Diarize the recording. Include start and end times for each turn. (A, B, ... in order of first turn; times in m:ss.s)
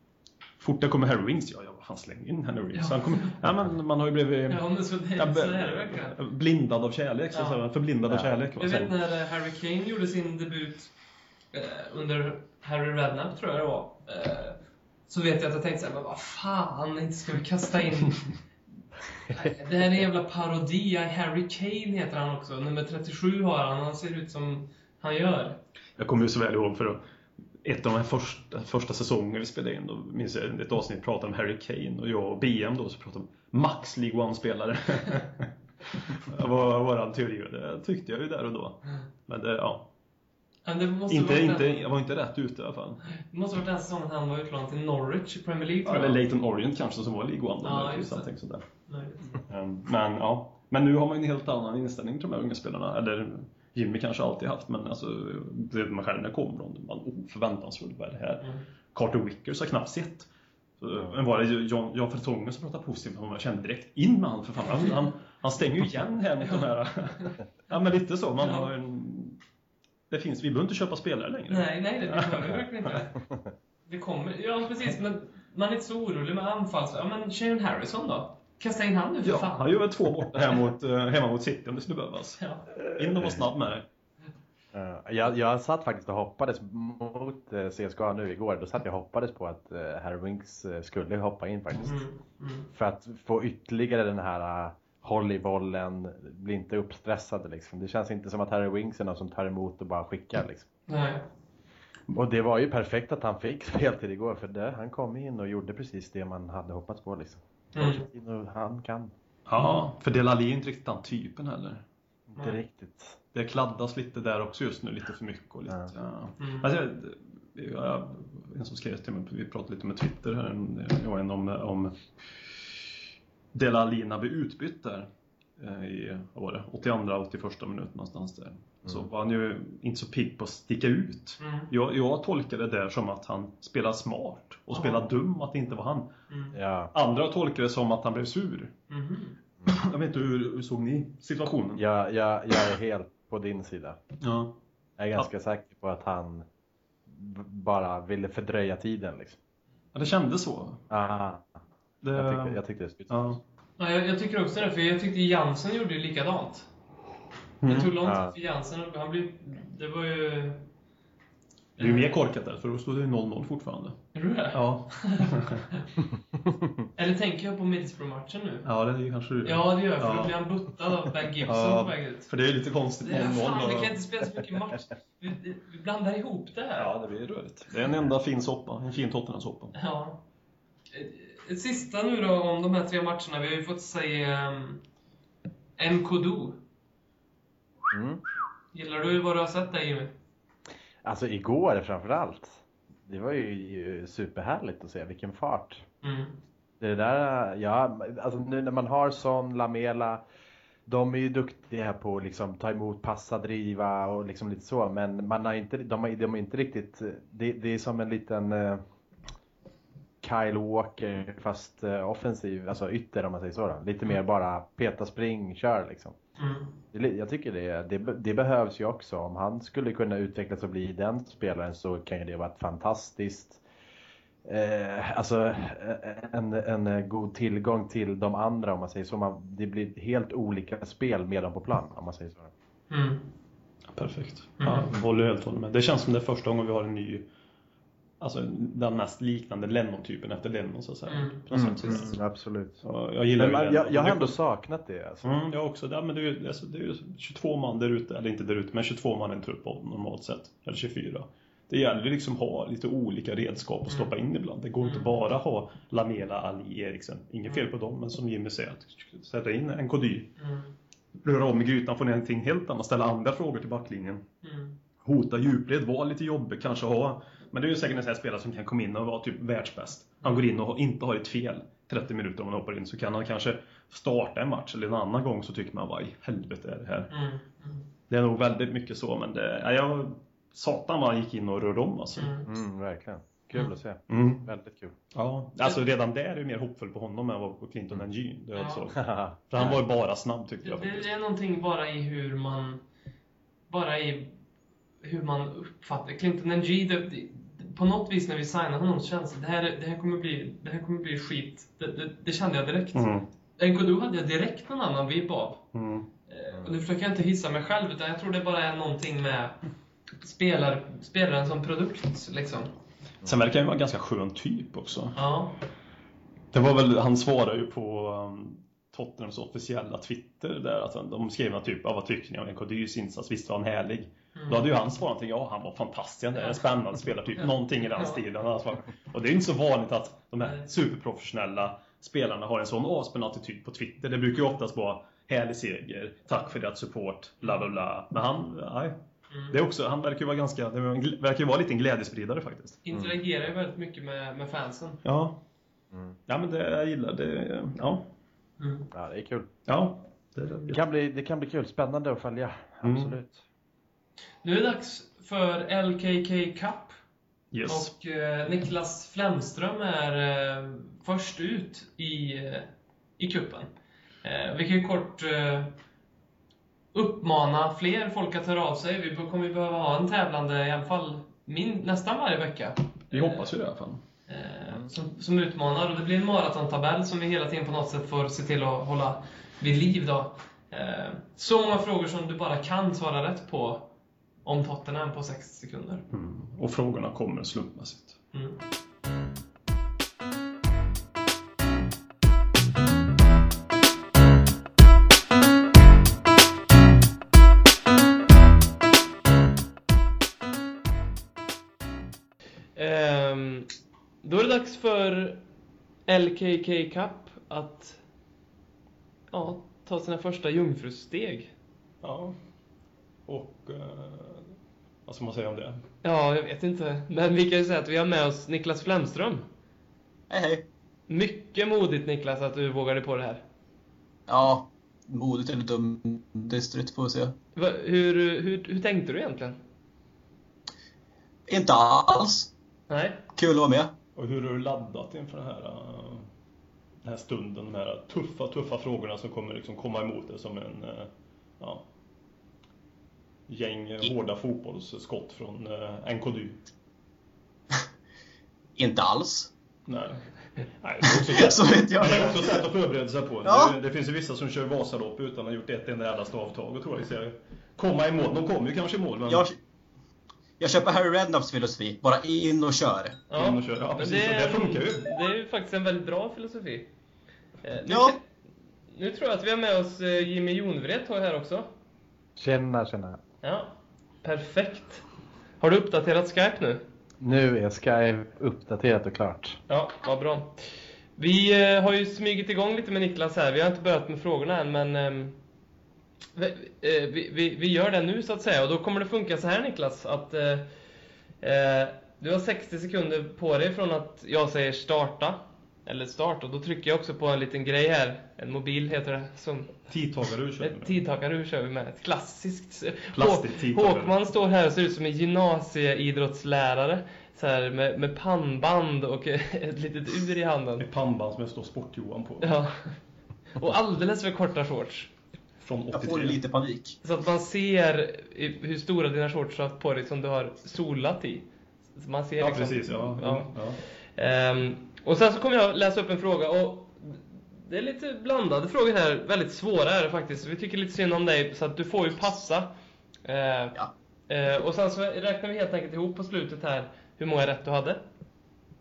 0:00.6-0:09.0 A
0:02.7-0:03.4 B
0:04.5-0:06.2 B
0:07.3-0:07.6 B
0:08.6-0:10.9 B
0:11.5-0:18.2 B
0:19.3-0:25.6 B
0:26.0-0:27.0 A
0:27.6-0:39.9 A
0:40.6-0:41.8 B
0:41.1-0:43.0 A
0:43.0-0:46.2 B
0:45.9-0:48.6 A
0:47.6-0:48.3 B
0:48.9-0:49.4 B
0:49.4-1:00.3 A
1:00.8-1:09.4 A
1:06.4-1:07.4 B
1:08.4-1:08.7 B
1:10.1-1:12.9 A
1:11.5-1:13.2 B
1:13.9-1:19.8 B
1:19.2-1:23.8 A
1:22.4-1:22.7 B
1:24.7-1:32.0 C
1:31.8-1:32.7 B
1:32.7-1:40.7 C
1:40.9-1:41.2 B
1:42.1-1:49.1 C
1:47.8-1:48.0 B
1:49.5-1:51.8 A
1:52.4-1:53.2 C
1:53.3-2:02.0 A
1:56.4-1:56.7 B
2:03.5-2:16.1 A
2:11.4-2:11.7 B
2:14.7-2:15.0 B
2:16.3-2:16.6 B
2:16.5-2:16.9 C
2:16.9-2:18.7 A
2:18.9-2:19.4 B
2:19.7-2:21.8 A
2:21.8-2:24.0 C
2:24.2-2:24.5 A
2:25.0-2:26.4 C
2:27.1-2:29.4 C
2:29.9-2:30.8 A
2:30.9-2:31.5 C
2:32.0-2:33.4 A
2:32.1-2:33.2 C
2:33.8-2:36.7 B
2:37.6-2:37.9 A
2:37.6-2:40.6 B
2:38.0-2:38.3 C
2:41.8-2:42.1 B
2:41.8-2:44.0 A
2:44.1-2:45.8 B
2:44.5-2:45.6 A
2:47.0-2:48.7 B
2:48.6-2:50.4 A
2:49.4-2:52.3 B
2:51.5-2:54.0 A
2:53.0-2:56.9 B
2:56.8-2:59.8 A
2:59.8-3:00.2 B
3:00.9-3:04.8 B
3:05.8-3:06.6 B
3:07.9-3:08.2 C
3:08.7-3:10.1 B
3:11.0-3:15.8 C
3:16.0-3:16.4 B
3:16.8-3:20.2 C
3:20.9-3:28.8 C
3:30.2-3:36.2 C
3:36.4-3:36.8 B
3:36.9-3:43.6 C
3:44.4-3:52.5 C
3:52.9-3:53.3 B
3:53.9-3:57.2 A
3:54.6-3:54.9 B
3:58.2-4:02.2 A
4:01.1-4:02.1 B
4:01.5-4:02.8 C
4:02.8-4:04.4 A
4:03.4-4:05.4 C
4:05.2-4:20.4 A
4:14.8-4:15.1 B
4:20.4-4:20.7 B
4:21.2-4:24.2 A
4:24.4-4:24.8 B
4:25.0-4:37.1 A
4:37.1-4:37.9 B
4:38.1-4:42.3 A
4:42.2-4:42.5 B
4:42.5-4:44.9 C
4:44.1-4:44.5 A
4:45.1-4:51.1 A
4:48.6-4:48.8 B
4:49.0-4:49.8 C
4:50.6-4:52.8 B
4:53.7-4:54.3 B
4:55.0-5:05.6 B
5:03.0-5:03.3 A
5:05.7-5:06.1 A
5:06.3-5:09.6 B
5:10.2-5:12.7 B
5:13.2-5:15.2 A
5:15.2-5:15.6 B
5:16.5-5:39.0 A
5:24.4-5:24.7 B
5:26.4-5:26.7 B
5:27.4-5:28.2 B
5:30.4-5:30.7 B
5:39.3-5:39.6 B
5:39.5-5:42.8 A
5:42.8-5:45.0 B
5:45.0-5:45.4 A
5:46.3-5:48.1 A
5:48.6-5:48.9 B
5:48.9-5:49.5 C
5:49.7-5:50.8 A
5:50.7-5:53.4 C
5:52.8-5:53.2 A
5:54.4-5:57.0 B
5:57.5-5:57.9 A
5:57.7-6:03.7 B
6:04.2-6:05.8 B
6:06.9-6:13.4 B
6:13.1-6:14.0 A
6:14.3-6:23.9 B
6:24.4-6:26.0 B
6:26.1-6:28.2 A
6:28.3-6:28.6 B
6:42.8-6:43.7 B
6:44.2-6:45.4 B
6:46.1-6:48.0 B
6:49.3-6:51.5 B
6:52.0-6:52.4 A
6:53.3-6:54.5 A
6:55.1-6:55.8 A
6:56.0-6:59.5 B
7:00.3-7:00.6 D
7:01.1-7:03.4 B
7:04.3-7:07.3 D
7:07.6-7:09.6 B
7:11.5-7:12.5 D
7:12.9-7:13.2 B
7:13.4-7:13.9 D
7:14.2-7:16.3 A
7:17.0-7:21.8 A
7:23.5-7:26.6 A
7:28.8-7:29.5 D
7:29.9-7:30.2 A
7:30.8-7:39.5 A
7:31.0-7:32.6 D
7:33.4-7:33.7 D
7:39.3-7:39.6 D
7:40.6-7:43.2 D
7:43.3-7:46.9 B
7:43.3-7:45.1 A
7:47.6-7:48.2 B
7:47.9-7:48.2 D
7:48.9-7:51.7 B
7:52.4-7:53.2 C
7:53.4-7:53.7 B
7:54.2-7:55.0 B
7:55.6-7:56.8 B
7:57.2-7:59.6 C
7:59.7-8:00.5 B
8:01.2-8:05.4 B
8:06.4-8:10.7 B
8:11.4-8:19.8 B
8:19.9-8:21.0 A
8:20.6-8:30.9 B
8:23.2-8:24.2 A
8:30.8-8:32.6 A
8:32.4-8:32.9 B
8:33.6-8:35.1 B
8:35.6-8:36.4 A
8:35.9-8:37.0 D
8:37.0-8:43.5 B
8:42.4-8:43.8 A
8:44.2-8:52.7 B
8:53.2-8:58.0 B